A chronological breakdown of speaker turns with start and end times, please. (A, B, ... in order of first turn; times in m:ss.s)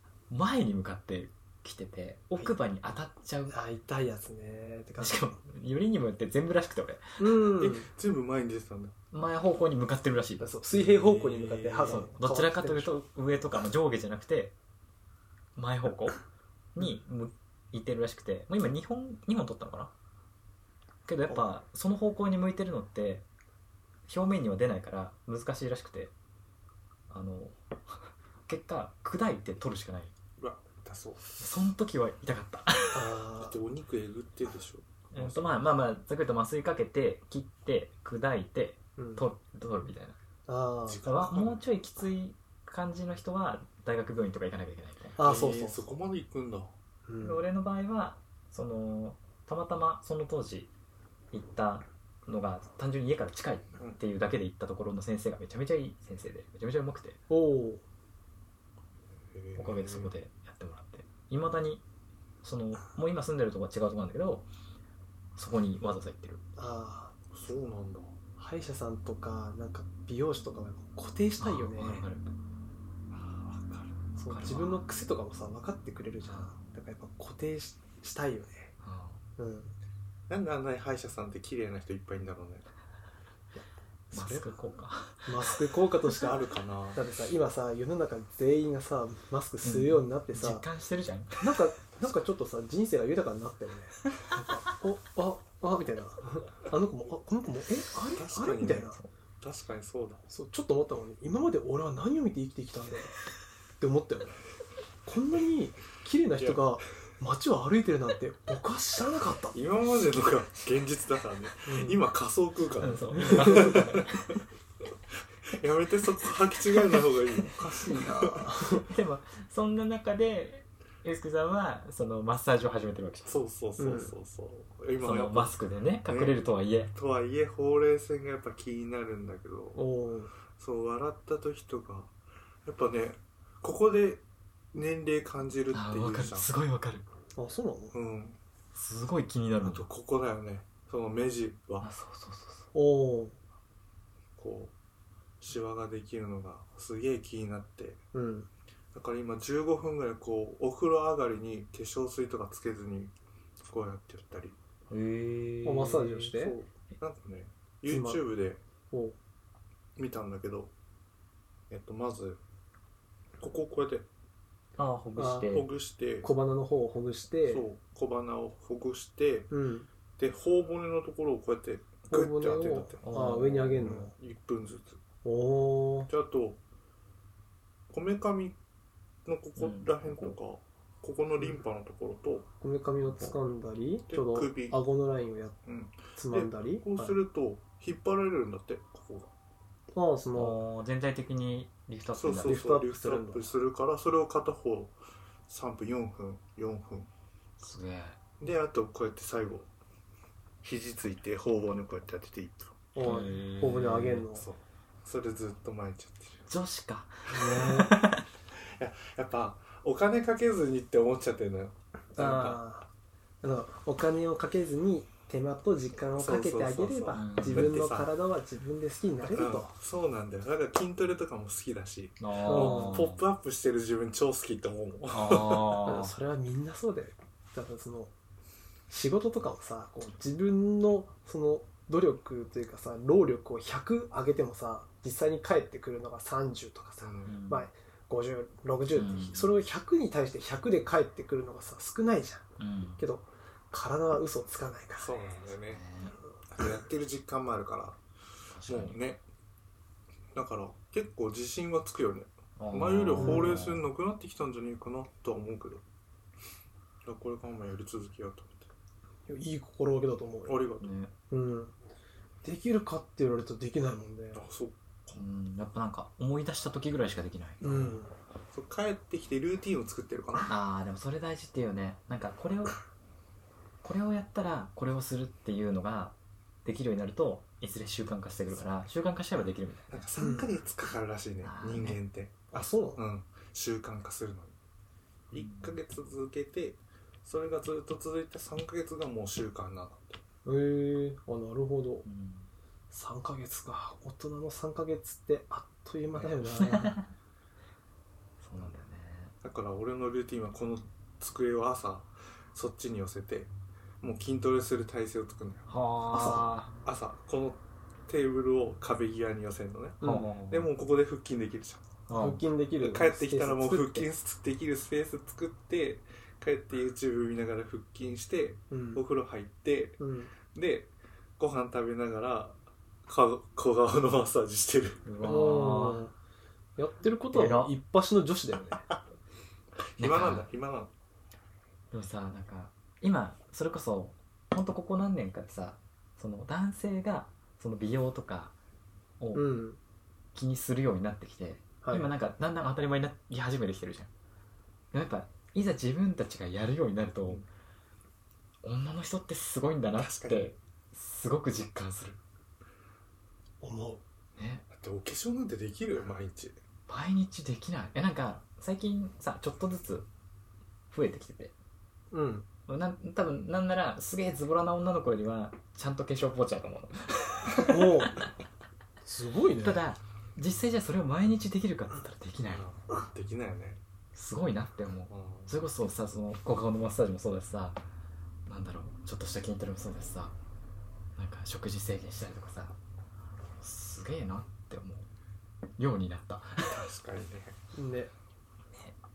0:00.3-0:03.6 A
0:03.5-0:05.3 B
0:05.0-0:07.2 A
0:07.2-0:07.9 B
0:07.5-0:08.9 C
0:09.1-0:10.5 A
0:10.4-0:12.9 B
0:10.7-0:12.1 C
0:11.8-0:14.5 A
0:15.6-0:16.2 A
0:16.7-0:19.9 A
0:21.0-0:23.2 A
0:24.1-0:26.1 A
0:27.1-0:30.1 A
0:30.4-0:31.4 C
0:31.4-0:33.2 A
0:32.9-0:33.6 B
0:33.4-0:35.5 C
0:35.1-0:40.2 A
0:39.0-0:39.2 B
0:40.5-0:41.0 B
0:40.9-0:41.6 C
0:41.0-0:45.2 A
0:45.2-0:45.8 B
0:45.2-0:46.7 C
0:47.0-0:47.4 B
0:47.2-0:50.7 A
0:51.3-0:57.2 A
0:57.3-0:57.8 B
0:59.3-1:00.1 C
0:59.6-1:01.8 A
1:02.4-1:04.5 A
1:05.4-1:06.4 A
1:06.6-1:07.1 B
1:07.3-1:08.2 C
1:08.4-1:12.0 B
1:11.4-1:12.3 A
1:13.1-1:14.0 C
1:14.2-1:18.7 B
1:14.3-1:14.8 A
1:18.8-1:19.2 A
1:19.4-1:19.7 B
1:20.3-1:22.6 C
1:23.5-1:24.5 B
1:24.1-1:25.6 A
1:25.2-1:26.4 B
1:26.1-1:27.0 C
1:26.9-1:30.6 B
1:29.6-1:31.6 A
1:31.4-1:39.0 B
1:38.1-1:40.2 C
1:40.3-1:43.1 B
1:43.8-1:44.4 B
1:45.0-1:49.6 B
1:46.4-1:46.6 C
1:49.5-1:54.2 C
1:51.6-1:52.0 B
1:52.8-1:54.4 A
1:53.2-1:53.9 B
1:55.5-1:58.5 C
1:57.5-1:58.9 B
1:58.9-2:03.3 A
2:03.2-2:05.5 C
2:03.8-2:04.1 B
2:05.0-2:06.9 A
2:06.1-2:06.4 C
2:06.9-2:09.8 C
2:09.7-2:10.3 B
2:10.6-2:12.1 C
2:12.6-2:14.2 C
2:14.7-2:16.5 C
2:15.7-2:17.0 A
2:17.4-2:17.9 B
2:17.9-2:18.4 C
2:18.7-2:19.9 A
2:19.6-2:21.9 C
2:21.8-2:22.7 A
2:22.7-2:23.4 B
2:24.4-2:24.7 C
2:25.4-2:28.0 C
2:28.1-2:28.5 B
2:28.9-2:34.6 C
2:34.9-2:36.3 A
2:35.6-2:36.6 B
2:36.3-2:38.6 C
2:37.9-2:38.2 B
2:38.9-2:39.2 B
2:40.0-2:40.7 C
2:41.7-2:42.4 C
2:43.4-2:44.1 C
2:44.8-2:45.7 A
2:45.2-2:45.5 B
2:45.5-2:46.3 C
2:46.2-2:47.6 B
2:47.4-2:49.5 C
2:49.5-2:49.9 B
2:50.2-2:55.0 C
2:52.1-2:54.1 B
2:53.0-2:53.8 A
2:55.2-2:56.1 B
2:56.1-2:56.6 C
2:57.9-2:58.6 C
2:59.2-3:02.5 C
2:59.6-3:00.4 A
3:02.6-3:05.6 B
3:03.1-3:03.3 A
3:04.1-3:04.8 C
3:05.6-3:09.3 C
3:06.2-3:07.2 B
3:09.9-3:10.6 B
3:10.3-3:12.6 A
3:12.2-3:15.0 C
3:12.4-3:13.5 B
3:15.5-3:17.1 C
3:17.6-3:18.2 A
3:18.4-3:19.7 C
3:20.6-3:22.8 C
3:22.9-3:24.5 B
3:23.0-3:24.2 A
3:24.3-3:26.4 C
3:26.5-3:28.2 A
3:27.3-3:27.9 B
3:28.5-3:32.6 C
3:32.2-3:32.9 B
3:33.4-3:39.7 B
3:36.2-3:38.1 C
3:37.1-3:37.8 A
3:39.2-3:45.8 C
3:42.2-3:43.2 A
3:42.5-3:43.0 B
3:45.1-3:46.1 A
3:45.8-3:48.1 B
3:48.9-4:02.4 B
3:57.0-3:57.3 C
3:57.3-3:57.7 A
3:58.9-3:59.5 A
4:02.6-4:03.0 A
4:03.0-4:05.2 B
4:05.0-4:05.8 C
4:05.6-4:06.2 A
4:06.5-4:08.0 C
4:08.5-4:09.0 A
4:08.7-4:09.2 C
4:10.3-4:15.8 C
4:12.6-4:13.8 A
4:13.2-4:13.6 B
4:17.0-4:18.7 C
4:19.3-4:20.6 B
4:20.4-4:20.9 C
4:20.8-4:21.1 A
4:21.3-4:21.7 B
4:22.4-4:24.4 B
4:24.3-4:25.2 C
4:25.1-4:28.0 A
4:27.6-4:28.1 B
4:28.5-4:30.5 C
4:30.5-4:32.8 A
4:33.8-4:40.1 A
4:39.9-4:44.5 C
4:40.2-4:40.5 B
4:41.4-4:42.0 A
4:42.5-4:43.0 B
4:45.3-4:50.2 C
4:45.3-4:45.8 A
4:50.4-4:52.0 B
4:52.0-4:52.5 A
4:52.9-4:57.0 B
4:56.6-4:57.1 A
4:58.4-4:59.3 A
4:59.4-5:05.7 C
5:05.7-5:06.7 A
5:06.1-5:06.4 B
5:06.8-5:11.8 C
5:10.0-5:10.3 B
5:10.0-5:10.7 A
5:12.1-5:12.4 A
5:12.1-5:14.1 B
5:12.8-5:25.0 C
5:18.7-5:19.0 B
5:20.0-5:20.3 B
5:25.0-5:26.1 A
5:25.2-5:26.1 B
5:26.8-5:28.8 B
5:27.3-5:27.7 A
5:30.0-5:30.9 C
5:30.0-5:30.5 A
5:31.9-5:38.5 A
5:39.2-5:39.5 A
5:39.3-5:39.8 B
5:40.3-5:44.1 A
5:41.8-5:42.1 B
5:44.9-5:47.4 A
5:48.6-5:52.2 A
5:50.0-5:50.5 C
5:53.6-5:54.0 B
5:54.4-5:54.6 A
5:54.7-5:56.6 C
5:56.9-6:00.1 A
6:00.9-6:01.5 A
6:02.1-6:02.4 B
6:02.7-6:08.2 A
6:07.6-6:08.2 B
6:09.0-6:09.8 B
6:09.6-6:12.6 A
6:12.5-6:13.8 C
6:14.1-6:17.8 A
6:15.1-6:15.5 C
6:18.5-6:20.3 A
6:21.2-6:22.8 A
6:23.6-6:25.1 A
6:25.8-6:26.8 A
6:26.6-6:27.6 C
6:27.7-6:28.1 B